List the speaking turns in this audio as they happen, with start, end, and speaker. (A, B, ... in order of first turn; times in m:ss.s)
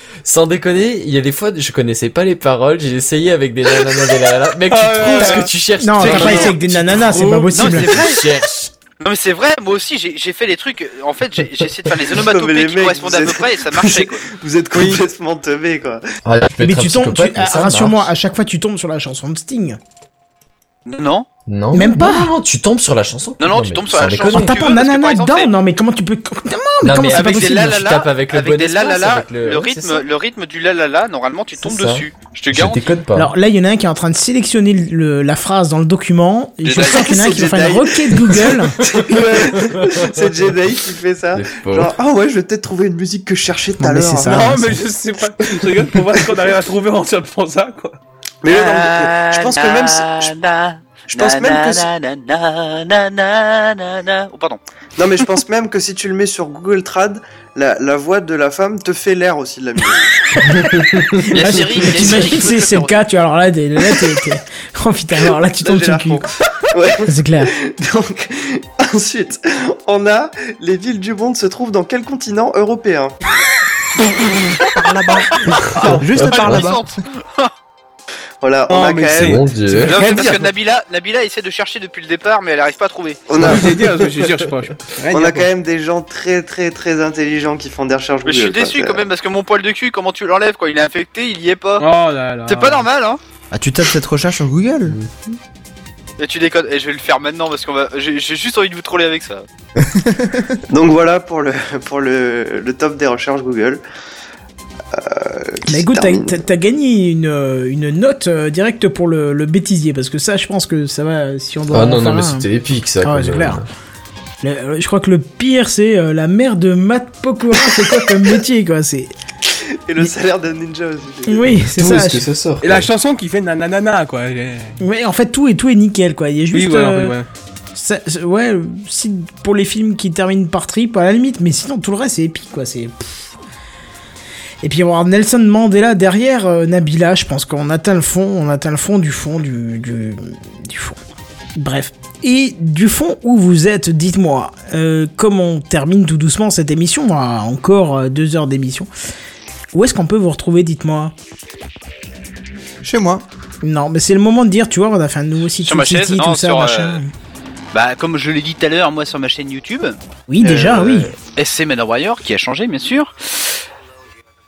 0:00.2-0:08.6 A
0:04.7-0:05.5 B
0:05.2-0:08.0 C
0:06.0-0:06.5 D
0:07.5-0:08.2 D
0:09.0-0:14.2 D
0:12.1-0:16.0 E
0:16.2-0:18.1 A
0:16.6-0:19.8 C
0:20.8-0:21.3 D
0:21.5-0:24.6 A
0:21.7-0:22.3 C
0:23.4-0:25.5 D
0:24.3-0:27.8 C
0:26.8-0:30.0 A
0:27.0-0:32.8 D
0:31.6-0:33.3 A
0:33.1-0:38.8 C
0:36.6-0:37.6 D
0:36.8-0:44.7 E
0:39.0-0:40.1 A
0:41.3-0:42.0 A
0:43.8-0:44.7 C
0:44.2-0:48.0 B
0:48.4-0:50.3 E
0:48.5-0:54.6 D
0:51.1-0:51.9 E
0:55.0-1:00.6 E
1:00.7-1:01.0 A
1:01.3-1:03.0 D
1:01.4-1:06.2 C
1:05.6-1:13.2 E
1:07.0-1:07.5 C
1:14.8-1:16.8 F
1:15.9-1:17.5 D
1:16.2-1:16.7 A
1:18.4-1:19.4 E
1:18.7-1:20.5 B
1:19.2-1:20.0 A
1:19.9-1:23.2 D
1:23.3-1:23.8 E
1:23.4-1:25.5 B
1:25.1-1:29.1 E
1:28.2-1:31.9 D
1:31.8-1:32.9 B
1:32.4-1:33.2 D
1:33.5-1:35.0 F
1:36.2-1:39.4 D
1:39.8-1:40.6 F
1:40.7-1:43.8 E
1:44.9-1:46.3 E
1:45.6-1:52.5 C
1:51.7-1:53.6 A
1:53.0-1:53.6 C
1:54.4-1:59.1 C
1:59.5-2:01.5 E
2:01.3-2:02.2 C
2:01.7-2:02.9 A
2:02.6-2:04.8 B
2:04.8-2:07.2 C
2:06.5-2:07.3 B
2:07.7-2:13.3 C
2:14.6-2:21.0 C
2:21.6-2:28.9 C
2:29.7-2:31.1 C
2:32.8-2:33.2 F
2:33.6-2:37.1 C
2:35.6-2:37.0 D
2:37.7-2:40.0 D
2:40.3-2:41.1 C
2:40.4-2:41.1 E
2:41.3-2:43.1 D